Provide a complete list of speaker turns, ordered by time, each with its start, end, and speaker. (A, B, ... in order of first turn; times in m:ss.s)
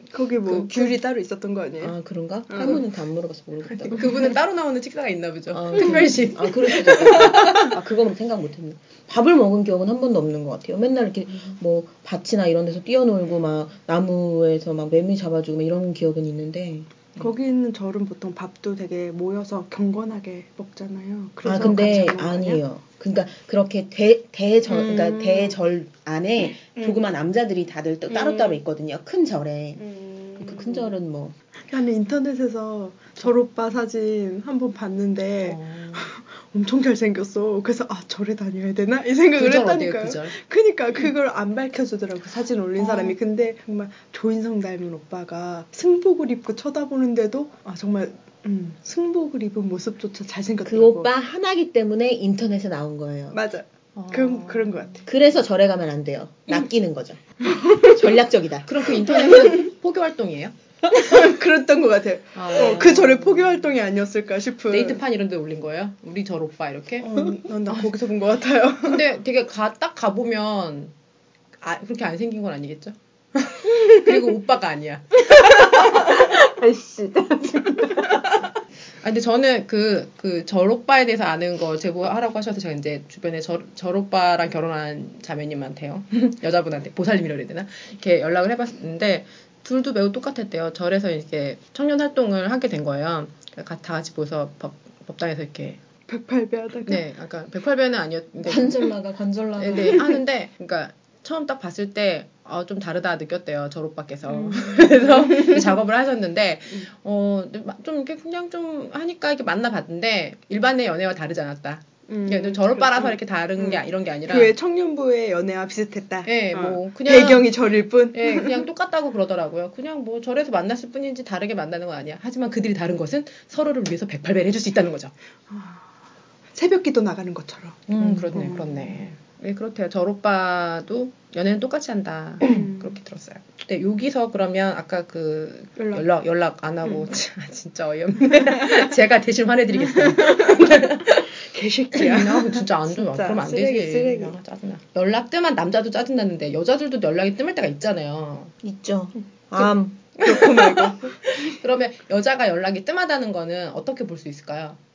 0:00.1-0:02.0 A
0:00.5-0:01.0 B
0:01.8-0:04.3 C
0:02.5-0:02.8 A
0:03.9-0:07.8 B
0:05.5-0:17.2 C
0:07.1-0:07.6 A
0:17.2-0:22.6 A
0:21.4-0:29.8 C
0:24.7-0:25.6 A
0:26.8-0:27.0 A
0:28.1-0:28.6 A
0:29.8-0:30.9 A
0:30.4-0:31.4 C
0:31.7-0:51.1 A
0:35.4-0:36.1 B
0:39.4-0:40.4 B
0:42.8-0:43.1 B
0:50.6-0:53.4 C
0:53.3-0:55.1 A
0:54.0-0:54.9 B
0:55.1-0:58.8 C
0:57.5-0:58.0 A
0:58.7-1:00.5 B
0:59.2-0:59.7 A
1:00.9-1:05.0 A
1:02.4-1:03.2 B
1:02.5-1:03.1 C
1:04.7-1:07.9 B
1:07.0-1:09.0 A
1:08.8-1:10.9 B
1:11.6-1:18.4 B
1:15.5-1:16.2 A
1:17.7-1:18.2 A
1:19.0-1:35.8 B
1:36.1-1:37.0 A
1:36.9-1:38.8 B
1:38.4-1:40.1 C
1:39.6-1:54.6 B
1:44.3-1:45.7 A
1:52.1-1:58.6 A
1:56.3-1:57.6 B
1:58.1-2:05.1 B
2:05.5-2:05.9 A
2:06.5-2:08.7 A
2:07.9-2:08.5 C
2:08.0-2:21.4 B
2:12.4-2:12.9 A
2:15.8-2:16.0 A
2:19.8-2:24.4 A
2:21.9-2:28.5 B
2:28.6-2:30.2 C
2:29.6-2:31.2 A
2:30.3-2:34.8 B